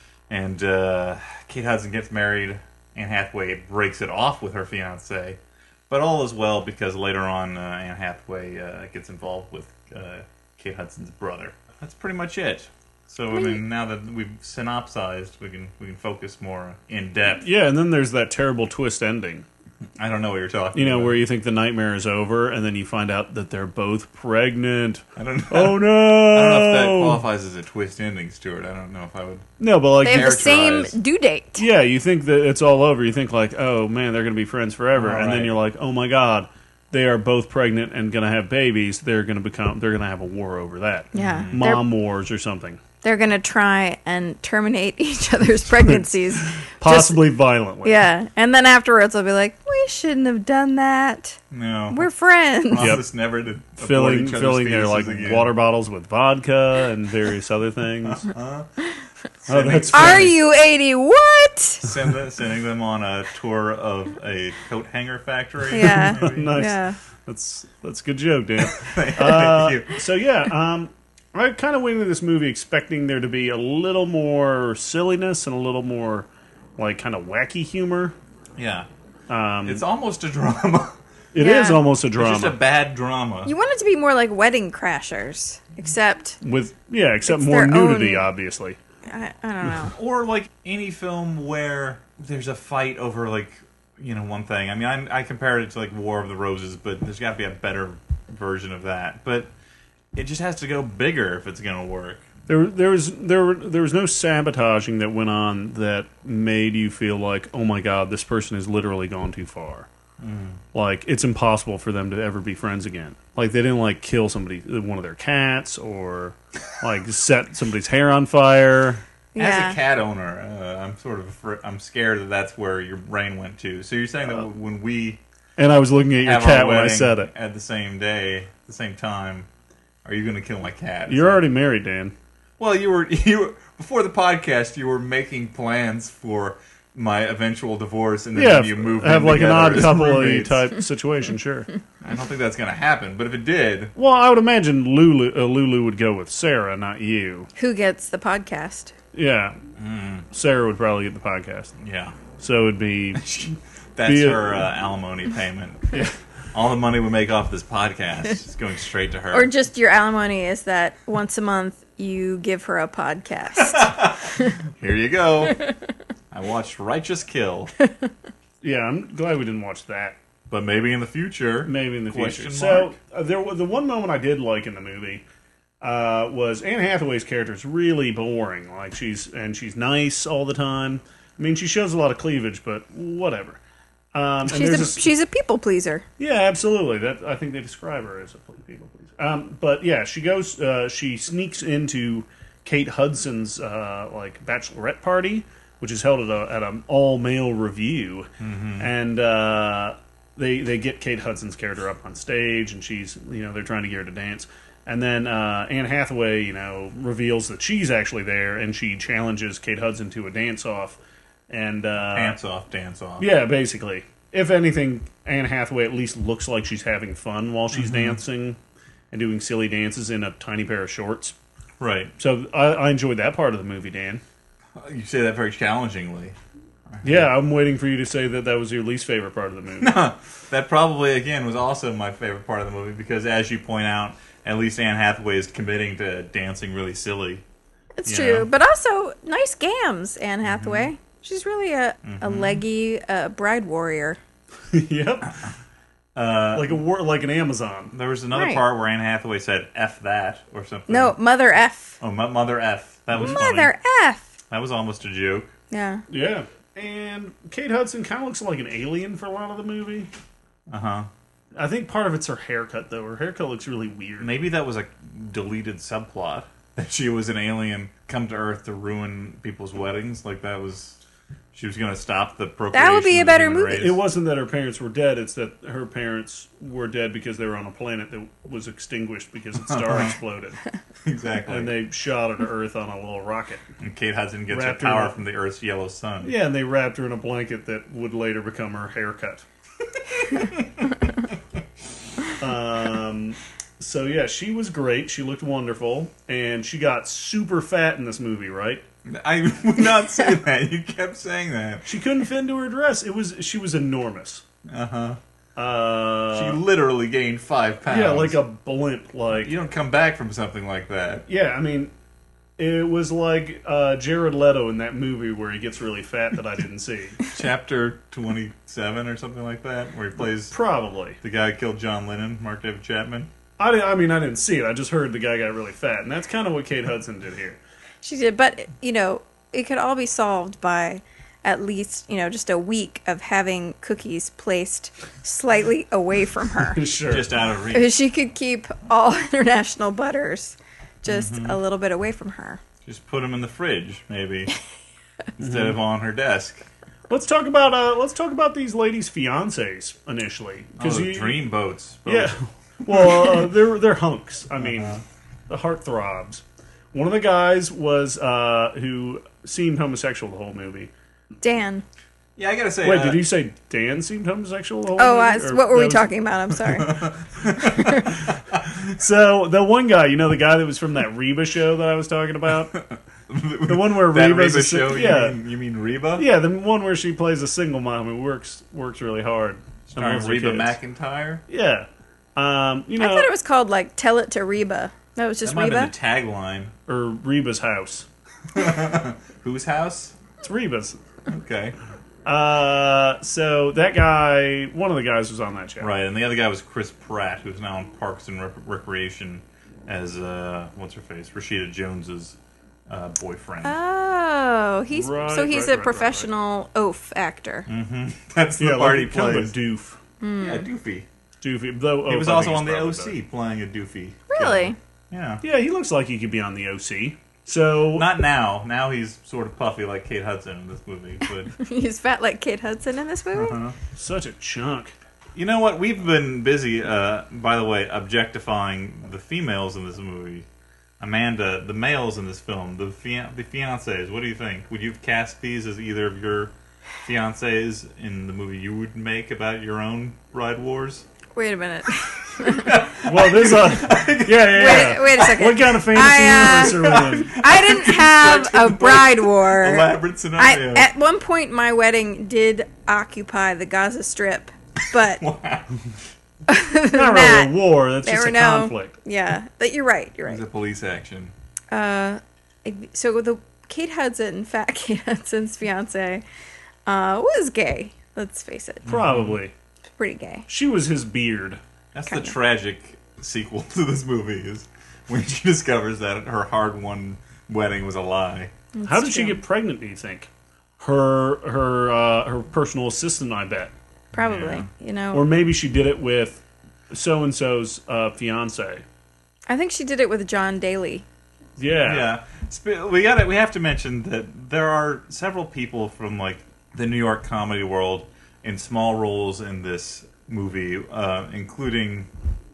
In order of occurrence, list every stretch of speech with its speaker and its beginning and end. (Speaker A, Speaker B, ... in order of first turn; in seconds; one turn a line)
Speaker A: 0.3-17.5
Speaker B: 17.4-19.4
Speaker A: 20.0-21.2
Speaker B: 20.7-27.2
Speaker A: 25.1-29.5
Speaker B: 29.6-30.8
Speaker C: 30.0-31.7
Speaker A: 30.0-30.9
Speaker B: 31.6-42.8
Speaker A: 34.9-35.5
Speaker C: 41.1-41.9
Speaker A: 41.1-41.7
Speaker C: 43.0-47.3
Speaker B: 45.7-48.1
Speaker C: 47.8-53.0
Speaker A: 51.5-52.0
Speaker A: 52.7-55.5
Speaker B: 52.8-53.0
Speaker B: 53.8-58.3
Speaker A: 58.0-58.7
Speaker A: 59.4-60.3
Speaker B: 59.5-60.3
Speaker C: 59.9-61.8
Speaker A: 61.8-66.5
Speaker C: 65.7-67.0
Speaker B: 65.8-78.2
Speaker A: 68.6-70.0
Speaker A: 78.6-78.9
Speaker B: 79.3-79.8
Speaker A: 79.6-81.0
Speaker B: 81.3-82.6
Speaker C: 81.4-81.8
Speaker A: 82.2-83.5
Speaker C: 83.5-86.4
Speaker B: 86.4-88.8
Speaker C: 87.3-88.3
Speaker C: 89.1-89.9
Speaker A: 89.9-99.5
Speaker A: 100.1-102.3
Speaker B: 102.5-109.9
Speaker A: 110.2-110.6
Speaker B: 110.7-119.0
Speaker C: 119.3-119.8
Speaker A: 119.4-125.2
Speaker B: 125.6-127.3
Speaker A: 126.2-129.5
Speaker A: 130.0-131.4
Speaker B: 131.1-132.1
Speaker A: 132.6-140.7
Speaker B: 138.3-141.7
Speaker A: 142.0-143.9
Speaker B: 143.9-147.5
Speaker C: 147.6-148.9
Speaker B: 149.1-149.6
Speaker A: 149.8-150.3
Speaker B: 150.3-151.7
Speaker A: 151.8-152.2
Speaker B: 152.4-153.2
Speaker A: 153.2-155.9
Speaker B: 154.1-154.7
Speaker A: 156.5-159.5
Speaker C: 159.3-164.5
Speaker A: 163.5-165.6
Speaker A: 166.3-167.7
Speaker B: 168.6-170.2
Speaker A: 170.5-172.9
Speaker B: 171.6-175.2
Speaker B: 175.8-183.6
Speaker B: 184.1-185.1
Speaker C: 184.5-186.0
Speaker B: 186.2-212.4
Speaker A: 198.4-198.9
Speaker A: 212.1-213.3
Speaker B: 213.2-218.6
Speaker A: 217.7-218.2
Speaker B: 219.1-221.3
Speaker A: 221.8-222.1
Speaker B: 222.2-224.2
Speaker A: 224.8-226.3
Speaker A: 226.9-227.3
Speaker B: 227.0-229.9
Speaker A: 229.8-237.4
Speaker C: 238.0-244.2
Speaker A: 238.1-238.5
Speaker A: 240.4-240.9
Speaker A: 242.0-242.6
Speaker B: 244.7-245.3
Speaker A: 246.1-246.8
Speaker B: 246.5-247.9
Speaker A: 247.9-251.1
Speaker C: 248.3-248.6
Speaker C: 250.9-252.0
Speaker A: 252.0-253.7
Speaker B: 253.2-253.4
Speaker C: 253.2-254.3
Speaker A: 254.5-255.5
Speaker C: 255.7-256.0
Speaker B: 256.1-260.1
Speaker A: 260.7-261.1
Speaker B: 261.5-264.3
Speaker A: 264.2-271.0
Speaker A: 271.5-274.0
Speaker C: 272.7-273.8
Speaker B: 273.7-280.6
Speaker A: 279.6-280.2
Speaker A: 281.0-281.8
Speaker B: 281.5-283.6
Speaker A: 283.8-286.3
Speaker B: 284.5-285.2
Speaker B: 286.2-289.4
Speaker A: 290.1-290.9
Speaker B: 292.4-298.8
Speaker A: 299.1-301.9
Speaker B: 301.8-304.4
Speaker A: 304.7-305.2
Speaker B: 305.6-306.6
Speaker A: 306.3-308.4
Speaker B: 307.9-309.5
Speaker A: 309.4-311.2
Speaker B: 311.3-311.9
Speaker B: 312.6-317.2
Speaker A: 317.3-320.5
Speaker B: 320.5-321.2
Speaker A: 321.2-323.3
Speaker B: 323.6-327.6
Speaker C: 328.0-336.8
Speaker B: 336.7-337.3
Speaker A: 337.1-337.9
Speaker C: 337.7-342.6
Speaker A: 341.1-341.6
Speaker A: 342.8-344.5
Speaker A: 345.4-346.6
Speaker B: 345.4-345.8
Speaker B: 347.1-351.4
Speaker A: 350.8-353.1
Speaker B: 352.1-360.9
Speaker A: 354.6-355.0
Speaker C: 361.4-361.8
Speaker A: 362.4-363.2
Speaker B: 362.8-366.1
Speaker C: 364.9-367.0
Speaker A: 366.7-368.8
Speaker C: 367.6-368.1
Speaker B: 368.9-372.7
Speaker A: 372.7-376.3
Speaker B: 373.7-375.4
Speaker B: 376.1-380.8
Speaker A: 379.9-381.4
Speaker B: 381.5-383.3
Speaker C: 383.0-385.9
Speaker A: 385.4-386.7
Speaker B: 386.9-388.1
Speaker A: 388.5-390.1
Speaker B: 390.4-391.0
Speaker A: 391.3-391.8
Speaker B: 392.2-395.9
Speaker A: 395.8-402.4
Speaker A: 402.9-403.7
Speaker C: 403.6-407.7
Speaker B: 404.9-406.3
Speaker A: 407.7-409.5
Speaker B: 408.6-410.0
Speaker C: 410.2-410.6
Speaker A: 410.4-411.1
Speaker B: 411.4-413.2
Speaker A: 412.0-415.4
Speaker C: 414.3-414.8
Speaker B: 415.4-418.1
Speaker A: 417.9-421.5
Speaker C: 421.5-423.6
Speaker A: 423.3-423.7
Speaker B: 423.9-424.9
Speaker A: 425.3-430.4
Speaker A: 431.0-441.1
Speaker C: 441.3-442.8
Speaker A: 442.4-444.8
Speaker B: 443.0-447.4
Speaker C: 444.5-455.2
Speaker A: 446.7-450.9
Speaker A: 455.2-455.9
Speaker C: 456.5-460.4
Speaker B: 456.9-458.9
Speaker A: 460.2-461.3
Speaker C: 461.7-466.2
Speaker C: 466.9-468.9
Speaker A: 468.9-469.4
Speaker B: 468.9-469.5
Speaker C: 470.0-470.5
Speaker B: 470.5-471.6
Speaker A: 471.9-478.5
Speaker C: 478.7-479.4
Speaker B: 478.9-483.7
Speaker C: 484.1-485.2
Speaker A: 484.2-484.7
Speaker B: 485.1-488.8
Speaker C: 489.5-491.0
Speaker B: 491.6-492.1
Speaker A: 491.8-502.1